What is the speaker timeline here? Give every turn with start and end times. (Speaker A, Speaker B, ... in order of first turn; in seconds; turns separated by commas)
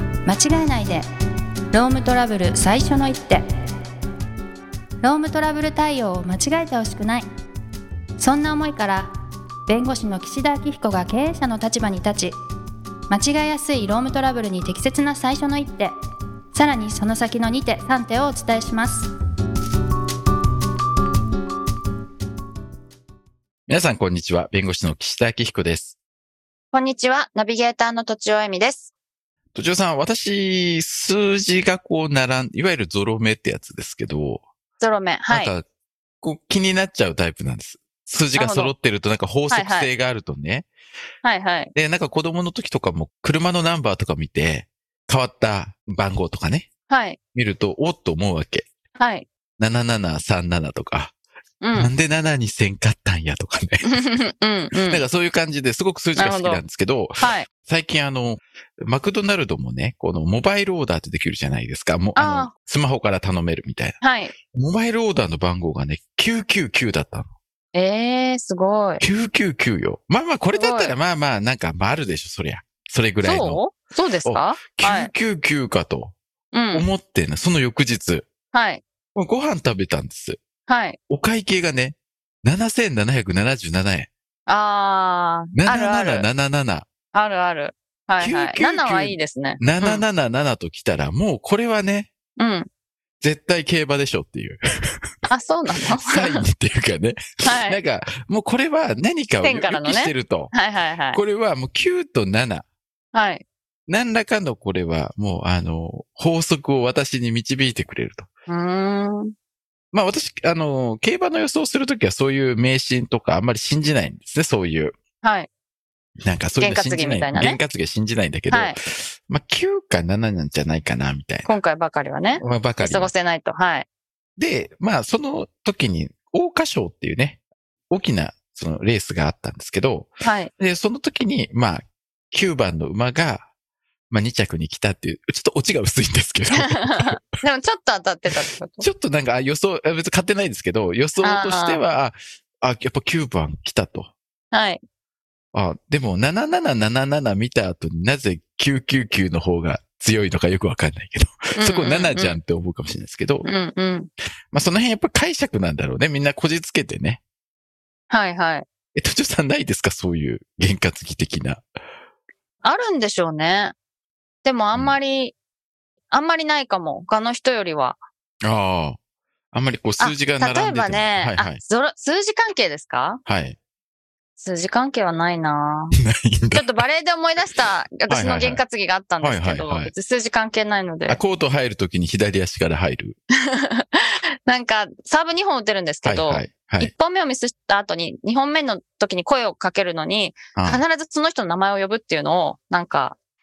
Speaker A: 0.2-1.0, Speaker A: 1.7-3.4, Speaker A: 5.0-7.2, Speaker A: 8.2-9.1, Speaker A: 9.7-12.3, Speaker A: 13.1-15.9, Speaker A: 16.5-19.1, Speaker B: 23.7-26.0, Speaker C: 26.7-28.8, Speaker B: 29.5-34.5, Speaker C: 34.8-35.5, Speaker B: 35.3-35.6, Speaker B: 36.2-40.7, Speaker C: 38.3-38.7, Speaker C: 39.5-39.9, Speaker C: 41.2-41.7, Speaker B: 41.7-46.7, Speaker C: 46.9-47.2, Speaker B: 47.3-48.7, Speaker C: 49.0-49.2, Speaker B: 49.6-51.1, Speaker C: 51.6-51.9, Speaker B: 51.7-54.1, Speaker C: 53.8-55.0, Speaker B: 54.7-67.3, Speaker C: 56.1-56.6, Speaker C: 57.2-57.5, Speaker C: 62.1-62.5, Speaker C: 64.0-64.3, Speaker C: 67.7-69.0, Speaker B: 69.0-73.6, Speaker C: 70.5-71.0, Speaker C: 73.2-75.1, Speaker B: 74.2-76.2, Speaker C: 76.5-76.8, Speaker B: 76.7-78.3, Speaker C: 78.5-78.8, Speaker B: 79.1-80.4, Speaker C: 80.7-81.0, Speaker B: 81.1-84.1, Speaker C: 84.5-86.3, Speaker B: 85.5-86.9, Speaker C: 87.1-90.0, Speaker B: 88.2-92.1, Speaker C: 92.4-92.6, Speaker B: 93.2-95.3, Speaker C: 95.3-96.4, Speaker B: 96.0-100.5, Speaker C: 97.4-97.8, Speaker C: 99.4-101.2, Speaker B: 101.1-102.6, Speaker C: 103.1-103.4, Speaker B: 103.9-108.3, Speaker C: 108.5-109.3, Speaker B: 109.9-115.0, Speaker C: 115.2-115.5, Speaker B: 116.2-121.5, Speaker C: 116.6-117.6, Speaker C: 118.5-118.8, Speaker C: 121.4-123.8, Speaker B: 122.4-123.1, Speaker B: 124.4-133.5, Speaker C: 130.2-130.5, Speaker B: 134.1-137.2, Speaker C: 136.6-138.8, Speaker B: 138.8-144.1, Speaker C: 141.2-141.8, Speaker C: 144.5-144.8, Speaker B: 145.5-153.5, Speaker C: 151.6-152.4, Speaker C: 153.4-154.1, Speaker B: 154.5-157.2, Speaker C: 158.1-158.6, Speaker B: 158.9-161.6, Speaker C: 162.6-163.7, Speaker C: 164.4-165.3, Speaker C: 166.1-168.0, Speaker B: 168.4-169.0, Speaker B: 169.5-171.6, Speaker C: 170.0-173.2, Speaker B: 173.2-173.6, Speaker C: 174.4-175.9, Speaker B: 175.9-176.7, Speaker C: 176.5-181.2, Speaker B: 178.1-178.6, Speaker B: 179.2-179.9, Speaker B: 181.1-183.2, Speaker C: 183.6-193.2, Speaker B: 186.0-186.9, Speaker B: 190.6-190.8